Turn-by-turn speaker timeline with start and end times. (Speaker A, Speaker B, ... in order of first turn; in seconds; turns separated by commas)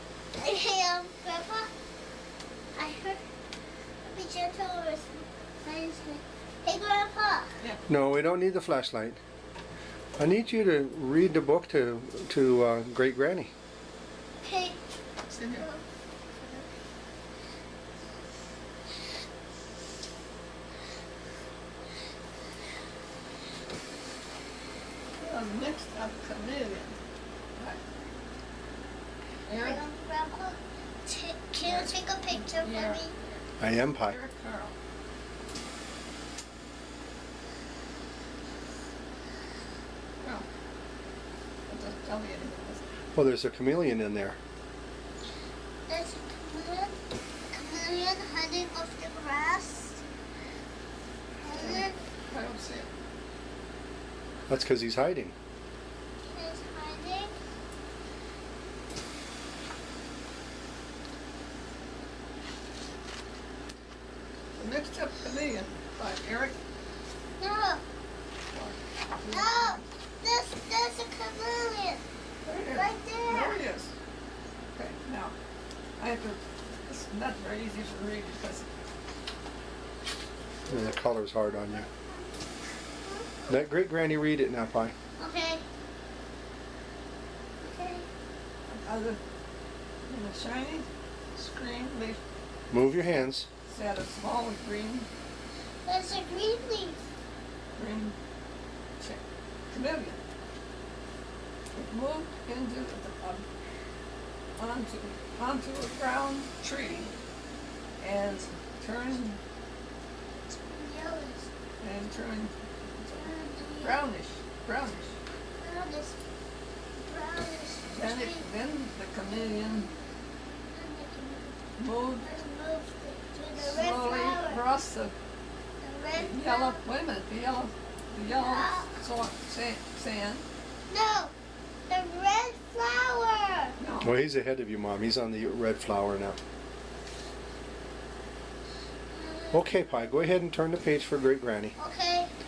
Speaker A: 0.4-1.7, Speaker A: 2.8-3.2, Speaker A: 4.0-7.5, Speaker B: 7.9-9.2, Speaker B: 10.2-13.5, Speaker A: 14.4-14.8, Speaker C: 15.3-15.7, Speaker A: 15.4-15.8, Speaker A: 16.3-16.7, Speaker C: 25.2-27.0, Speaker C: 27.6-27.8, Speaker C: 29.5-29.8, Speaker A: 29.5-33.1, Speaker C: 31.6-33.4, Speaker B: 33.6-34.2, Speaker C: 34.0-34.7, Speaker C: 40.2-40.5, Speaker C: 41.7-42.9, Speaker B: 43.1-44.4, Speaker A: 45.9-50.0, Speaker A: 51.4-52.0, Speaker C: 51.5-52.9, Speaker B: 54.5-55.3, Speaker A: 56.2-57.3, Speaker C: 64.6-66.5, Speaker A: 67.4-67.8, Speaker C: 68.5-69.9, Speaker A: 69.3-72.0, Speaker C: 72.5-73.9, Speaker A: 72.7-73.6, Speaker C: 74.8-75.3, Speaker C: 76.0-78.7, Speaker B: 80.7-81.9, Speaker A: 81.4-82.2, Speaker A: 83.0-83.5, Speaker B: 83.5-84.9, Speaker A: 85.2-85.6, Speaker A: 87.6-88.1, Speaker C: 88.7-89.2, Speaker C: 90.1-92.2, Speaker B: 92.7-93.5, Speaker C: 93.7-95.1, Speaker A: 95.9-97.1, Speaker C: 97.8-98.2, Speaker C: 99.0-100.2, Speaker C: 101.7-103.5, Speaker C: 104.6-107.1, Speaker C: 108.0-109.4, Speaker A: 110.5-111.5, Speaker C: 111.8-115.2, Speaker A: 113.2-114.0, Speaker A: 115.6-116.2, Speaker A: 117.0-118.5, Speaker C: 117.9-119.9, Speaker A: 119.3-120.2, Speaker A: 120.7-124.6, Speaker C: 121.8-122.3, Speaker C: 123.6-125.1, Speaker A: 125.8-126.8, Speaker C: 126.2-130.4, Speaker A: 128.2-129.0, Speaker A: 130.9-131.3, Speaker A: 131.9-133.8, Speaker C: 133.8-134.2, Speaker B: 134.0-136.4, Speaker A: 139.1-139.7, Speaker B: 139.5-141.8, Speaker A: 141.8-142.3